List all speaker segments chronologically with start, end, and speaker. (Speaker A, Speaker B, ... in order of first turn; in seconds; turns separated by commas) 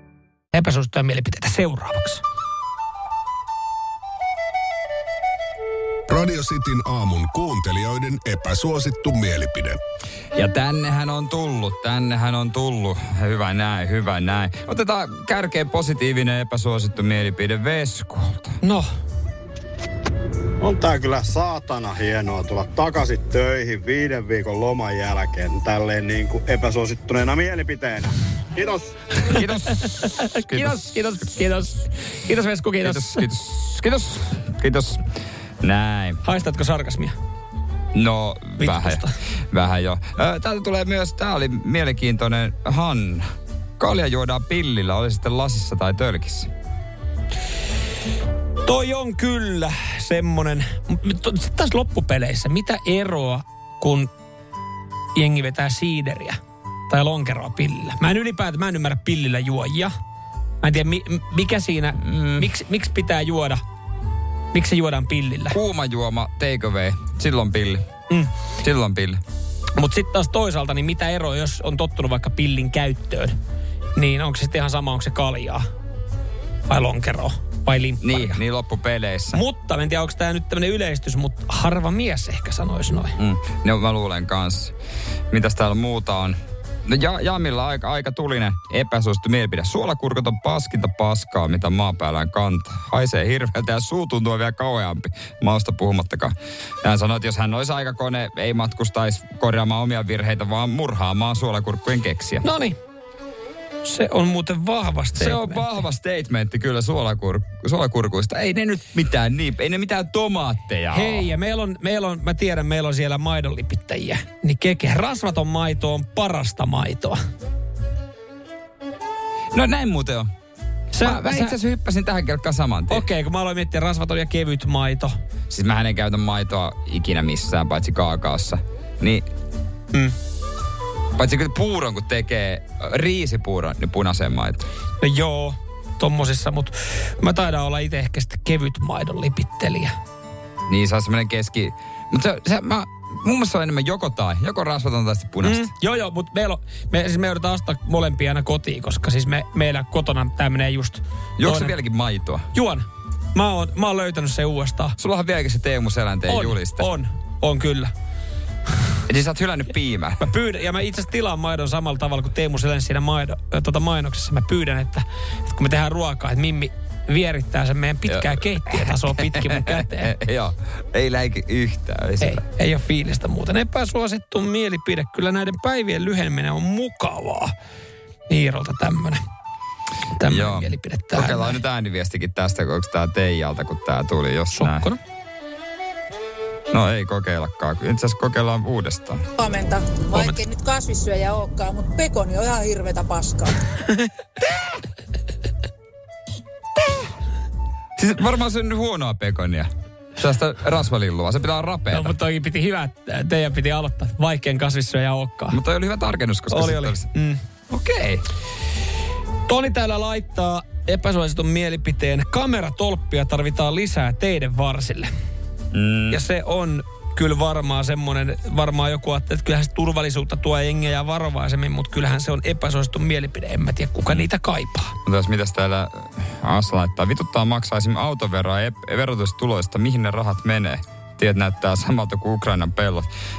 Speaker A: 0.5-2.2, Speaker B: 6.1-9.8, Speaker C: 10.3-18.6, Speaker D: 20.6-28.9, Speaker C: 29.3-31.3, Speaker A: 29.8-33.2, Speaker C: 32.8-35.0, Speaker C: 35.6-36.2, Speaker A: 36.2-37.1, Speaker C: 37.9-43.2, Speaker A: 38.6-39.1, Speaker C: 43.8-46.5, Speaker A: 48.6-54.1, Speaker A: 55.1-56.4, Speaker A: 56.9-59.9, Speaker A: 60.6-63.6, Speaker C: 62.0-62.5, Speaker A: 64.5-65.6, Speaker C: 65.5-67.8, Speaker C: 68.6-69.2, Speaker A: 69.8-73.3, Speaker A: 73.9-75.6, Speaker A: 76.7-78.4, Speaker C: 78.0-79.4, Speaker A: 79.3-83.1, Speaker C: 83.2-84.7, Speaker C: 85.3-102.5, Speaker A: 102.4-102.8, Speaker A: 103.8-105.6, Speaker C: 105.1-111.3, Speaker A: 110.9-117.2, Speaker C: 119.5-120.3, Speaker A: 120.9-121.5, Speaker C: 121.0-123.1, Speaker A: 122.9-125.1, Speaker C: 125.5-129.2, Speaker C: 131.2-134.7, Speaker A: 135.0-139.9, Speaker C: 140.7-145.7, Speaker A: 145.4-151.7, Speaker C: 151.4-152.5, Speaker A: 152.5-154.9, Speaker C: 155.0-156.8, Speaker A: 156.3-157.9, Speaker C: 159.1-160.2, Speaker A: 160.2-170.1, Speaker C: 168.1-172.4, Speaker A: 172.2-177.5, Speaker A: 178.3-179.2, Speaker A: 180.2-181.6, Speaker C: 180.2-184.9, Speaker A: 184.5-185.0, Speaker C: 186.7-189.3, Speaker E: 189.4-193.5, Speaker A: 190.1-190.4, Speaker C: 198.0-202.1, Speaker A: 201.9-205.6, Speaker C: 205.5-207.1, Speaker A: 206.5-207.4, Speaker C: 207.7-208.2, Speaker A: 209.5-215.1, Speaker C: 215.7-216.2, Speaker A: 216.1-224.9, Speaker C: 225.0-233.1